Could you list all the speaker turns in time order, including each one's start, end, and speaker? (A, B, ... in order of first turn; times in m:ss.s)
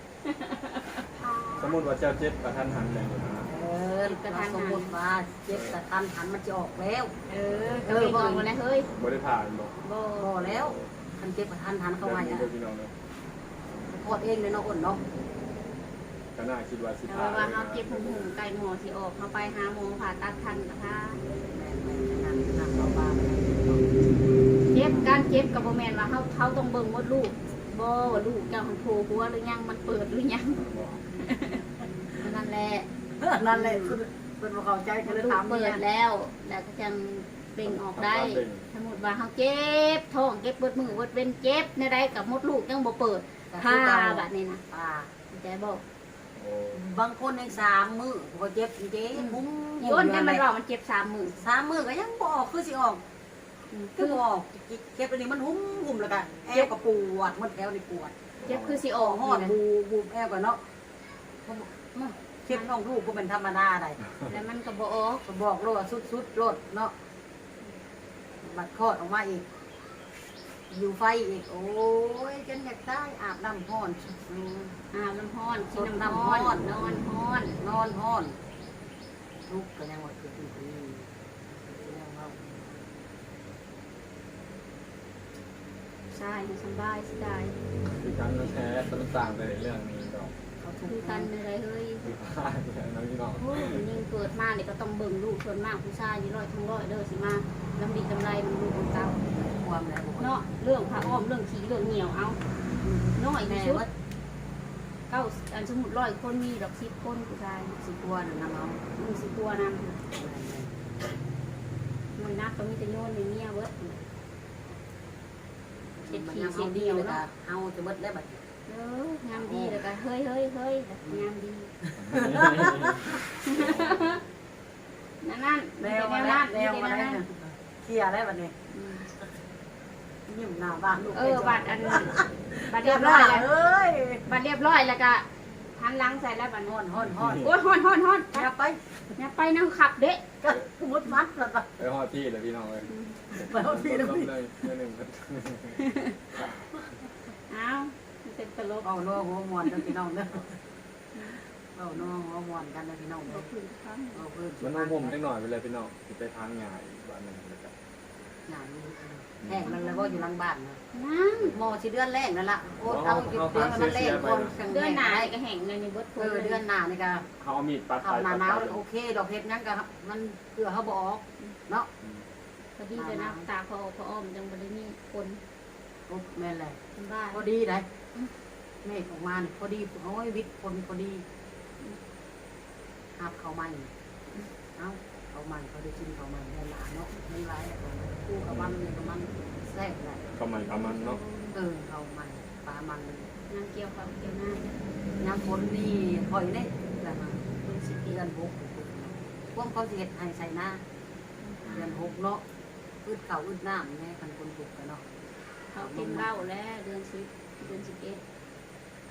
0:00.2-0:01.8 A
0:01.6-0:03.5 B
0:03.5-0:07.1 C
0:04.0-0:04.9 A
0:05.5-0:05.7 B
0:07.3-0:08.9 A
0:07.8-0:08.5 C
0:08.9-0:09.7 B
0:09.8-0:10.4 A
0:10.2-0:12.5 C
0:10.4-0:10.9 B
0:12.0-0:12.9 B
0:13.9-0:15.0 C
0:16.4-0:18.3 B
0:17.1-0:21.2 A
0:21.4-0:23.9 C
0:24.7-0:30.6 A
0:24.8-0:25.2 C
0:30.5-0:31.0 B
0:31.2-0:31.6 A
0:32.2-0:32.9 A
0:33.2-0:35.8 C
0:33.4-0:34.0 A
0:35.0-0:44.6 A
0:37.6-0:38.6 B
0:43.5-0:45.1 C
0:45.3-0:45.8 A
0:46.4-0:46.8 B
0:46.7-0:50.4 C
0:49.1-0:51.4 A
0:51.3-0:53.0 C
0:53.7-0:54.2 A
0:54.0-0:58.1 C
0:58.4-0:58.8 B
0:58.4-0:59.9 A
0:58.9-1:00.6 C
1:01.4-1:04.0 C
1:04.3-1:05.2 A
1:05.2-1:06.9 C
1:08.4-1:09.5 C
1:10.7-1:14.8 C
1:14.9-1:17.5 A
1:15.7-1:17.0 C
1:17.6-1:18.4 C
1:19.4-1:22.5 C
1:26.1-1:27.6 A
1:27.8-1:30.3 B
1:30.6-1:31.3 C
1:30.8-1:32.1 A
1:32.0-1:33.9 B
1:33.4-1:39.2 A
1:39.3-1:41.2 C
1:40.2-1:42.4 A
1:42.8-1:43.9 C
1:43.1-1:43.8 A
1:45.1-1:47.8 A
1:47.8-1:48.8 C
1:49.0-1:50.0 A
1:50.1-1:50.7 C
1:52.2-1:54.0 A
1:56.0-1:58.4 C
1:56.1-1:57.2 A
1:58.7-2:01.7 A
1:59.3-1:59.8 C
2:01.8-2:03.1 C
2:02.0-2:03.9 B
2:02.6-2:04.2 A
2:05.2-2:07.2 A
2:05.8-2:08.5 C
2:08.7-2:09.1 A
2:10.3-2:14.2 C
2:11.1-2:13.5 A
2:14.2-2:15.2 A
2:15.8-2:16.8 A
2:16.6-2:17.5 C
2:17.1-2:17.5 B
2:17.4-2:18.5 A
2:18.3-2:18.8 C
2:19.2-2:20.2 A
2:20.4-2:21.7 C
2:21.8-2:25.8 B
2:22.9-2:23.2 A
2:23.3-2:24.7 C
2:25.8-2:26.1 A
2:27.5-2:28.9 A
2:28.8-2:30.6 C
2:31.1-2:31.4 A
2:31.8-2:33.5 C
2:33.3-2:34.2 A
2:34.1-2:35.3 C
2:34.6-2:37.7 B
2:38.5-2:40.8 C
2:39.4-2:39.7 B
2:39.7-2:40.3 A
2:40.9-2:41.5 A
2:41.5-2:45.3 C
2:42.8-2:44.5 B
2:44.6-2:46.6 A
2:46.2-2:47.3 C
2:47.4-2:48.8 B
2:48.0-2:51.9 C
2:52.8-2:55.4 A
2:52.9-2:53.4 C
2:56.1-2:56.8 C
2:57.0-2:57.4 A
2:57.3-2:57.9 C
2:58.8-3:01.2 C
3:03.2-3:03.9 C
3:04.8-3:10.3 C
3:10.3-3:11.2 B
3:10.6-3:11.6 A
3:11.5-3:13.3 C
3:13.5-3:14.7 A
3:15.2-3:17.4 C
3:17.5-3:18.2 A
3:18.0-3:20.8 C
3:21.4-3:21.7 A
3:21.6-3:22.1 B
3:21.7-3:22.4 C
3:23.0-3:25.0 C
3:25.7-3:28.2 A
3:25.8-3:26.3 C